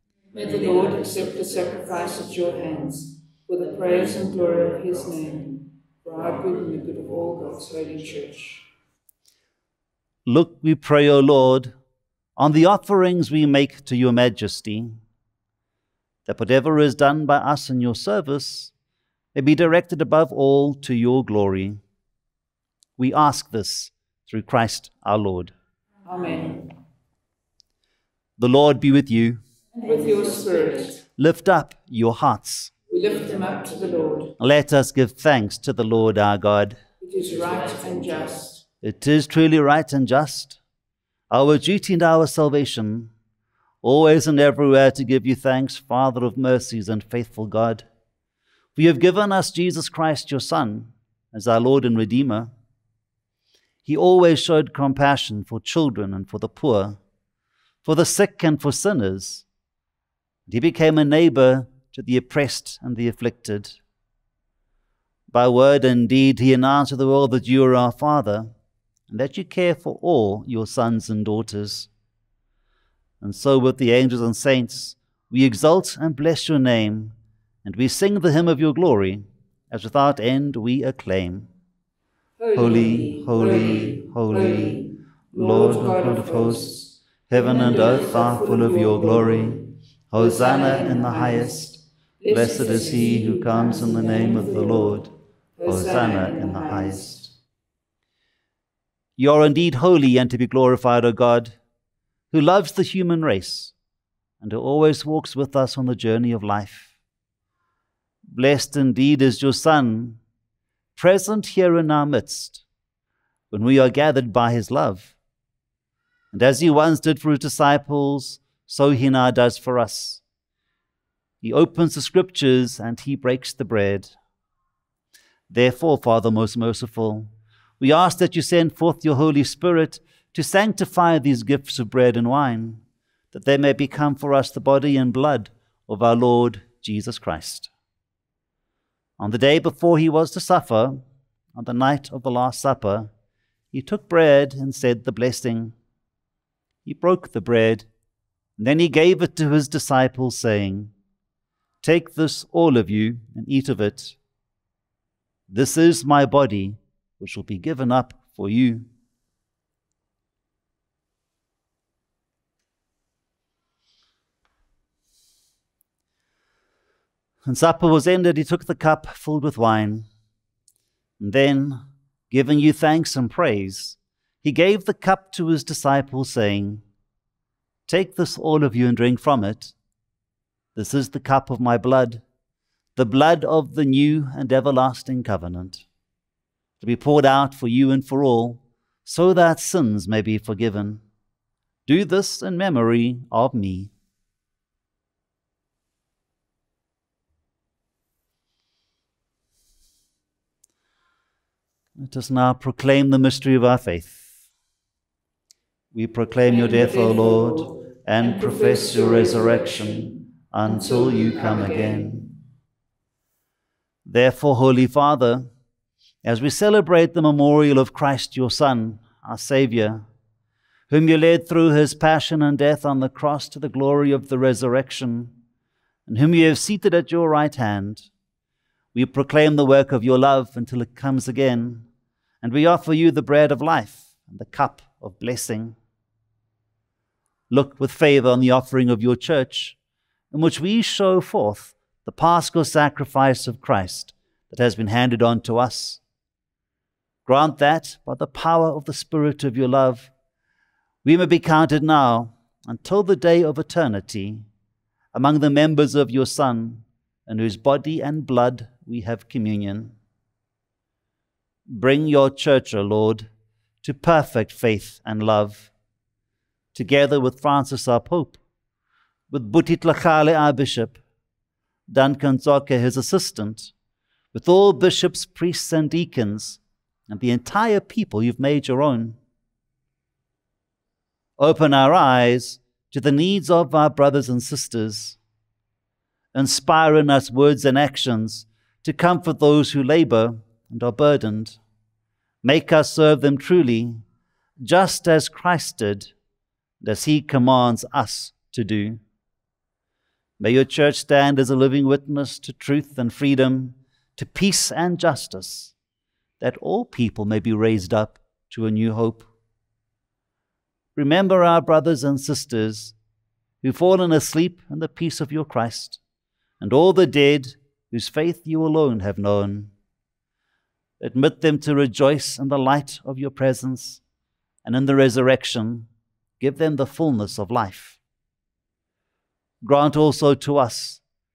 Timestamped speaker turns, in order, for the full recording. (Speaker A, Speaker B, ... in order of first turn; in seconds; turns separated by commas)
Speaker A: 0.3-8.7, Speaker B: 10.2-11.7, Speaker B: 12.4-15.0, Speaker B: 16.2-18.7, Speaker B: 19.3-21.8, Speaker B: 23.0-25.5, Speaker A: 26.1-26.7, Speaker B: 28.4-29.4, Speaker A: 29.7-31.0, Speaker B: 31.1-32.7, Speaker A: 32.9-34.3, Speaker B: 34.4-36.8, Speaker A: 37.0-38.6, Speaker B: 38.8-40.6, Speaker B: 41.3-43.1, Speaker B: 43.8-47.9, Speaker B: 48.7-52.5, Speaker B: 53.9-57.0, Speaker B: 57.8-59.4, Speaker B: 60.5-63.8, Speaker B: 65.3-68.5, Speaker B: 69.1-71.9, Speaker B: 73.2-81.5, Speaker A: 82.4-89.6, Speaker B: 82.5-95.1, Speaker A: 90.2-91.5, Speaker A: 92.2-95.0, Speaker A: 95.6-97.1, Speaker B: 95.6-97.3, Speaker B: 99.2-101.6, Speaker B: 102.3-103.7, Speaker B: 104.4-106.9, Speaker B: 108.3-110.2, Speaker B: 111.0-112.6, Speaker B: 113.5-115.1, Speaker B: 116.3-120.2, Speaker B: 121.4-124.1, Speaker B: 125.5-137.7, Speaker B: 139.2-141.0, Speaker B: 141.6-143.1, Speaker B: 143.7-145.7, Speaker B: 146.8-147.9, Speaker B: 148.6-150.9, Speaker B: 151.8-154.2, Speaker B: 155.5-158.9, Speaker B: 167.4-170.1, Speaker B: 171.2-176.8, Speaker B: 177.9-179.7, Speaker B: 180.7-182.2, Speaker B: 182.9-185.8, Speaker B: 186.8-191.0, Speaker B: 191.9-193.9, Speaker B: 201.9-204.3, Speaker B: 205.9-212.3, Speaker A: 206.5-210.1, Speaker A: 210.7-212.1, Speaker B: 214.1-215.5, Speaker B: 216.2-220.1, Speaker B: 220.9-225.4, Speaker B: 226.1-228.1, Speaker B: 228.9-231.9, Speaker B: 232.4-235.8, Speaker B: 237.5-239.8, Speaker B: 240.3-246.0, Speaker B: 247.2-250.1, Speaker B: 251.0-254.5, Speaker B: 255.1-259.9, Speaker B: 261.7-263.3, Speaker B: 263.8-265.7, Speaker B: 266.7-268.4, Speaker B: 269.3-271.0, Speaker B: 271.9-273.7, Speaker B: 274.3-279.2, Speaker B: 281.4-285.2, Speaker B: 286.3-291.6, Speaker B: 292.4-294.0, Speaker B: 294.6-296.1, Speaker B: 296.8-299.0, Speaker B: 300.4-305.7, Speaker B: 306.4-309.3, Speaker B: 310.9-312.9, Speaker B: 313.6-316.0, Speaker B: 316.6-319.7, Speaker B: 321.0-324.0, Speaker B: 324.6-325.9, Speaker B: 326.4-328.0, Speaker B: 329.6-331.0